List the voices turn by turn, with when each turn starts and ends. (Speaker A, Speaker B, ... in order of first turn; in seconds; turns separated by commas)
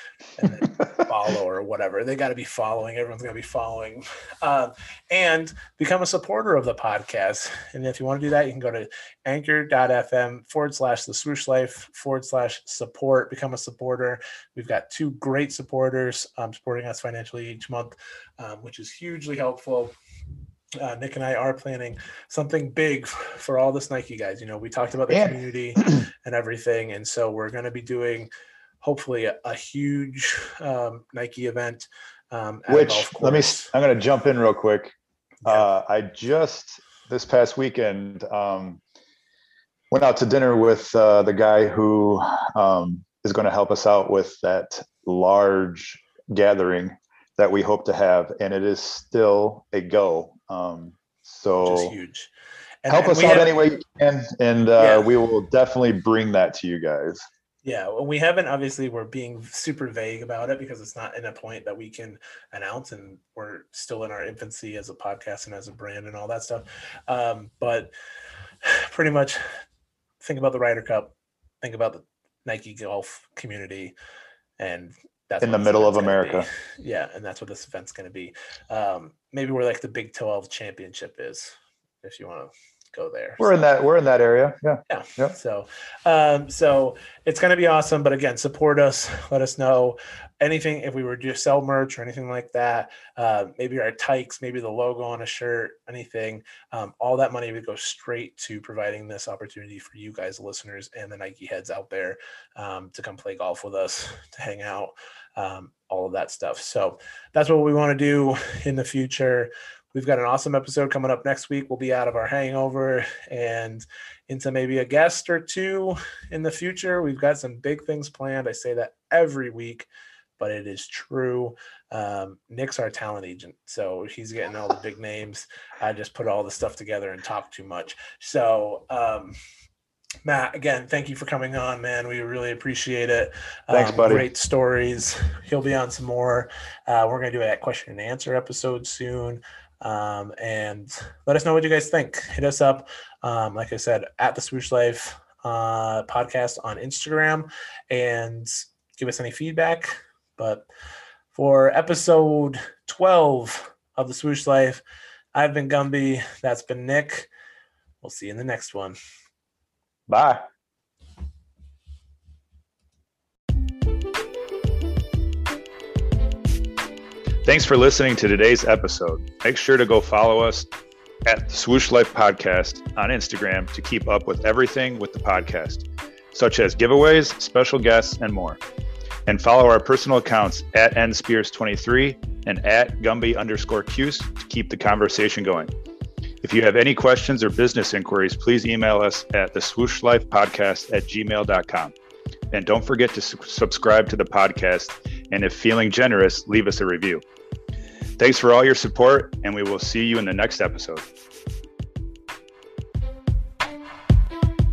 Speaker A: 0.3-19.9, Speaker A: 20.8-28.3, Speaker B: 25.1-26.0, Speaker A: 28.8-33.7, Speaker B: 32.7-34.9, Speaker B: 35.4-38.8, Speaker B: 39.9-51.9, Speaker A: 51.6-52.3, Speaker A: 52.8-53.6, Speaker B: 52.9-57.2, Speaker A: 54.8-55.1, Speaker A: 57.6-67.9, Speaker A: 68.6-69.4, Speaker A: 70.2-73.9, Speaker A: 74.6-83.5, Speaker B: 75.4-76.5, Speaker B: 83.4-85.3, Speaker A: 84.9-119.9, Speaker A: 120.4-129.4, Speaker A: 130.2-150.7, Speaker B: 133.7-134.3, Speaker A: 151.3-154.8, Speaker A: 155.3-157.3, Speaker A: 158.0-159.0, Speaker B: 160.1-160.4, Speaker B: 167.4-170.7, Speaker B: 171.2-178.6, Speaker B: 179.2-185.7, Speaker B: 186.4-191.9, Speaker B: 192.5-197.2, Speaker B: 198.2-201.1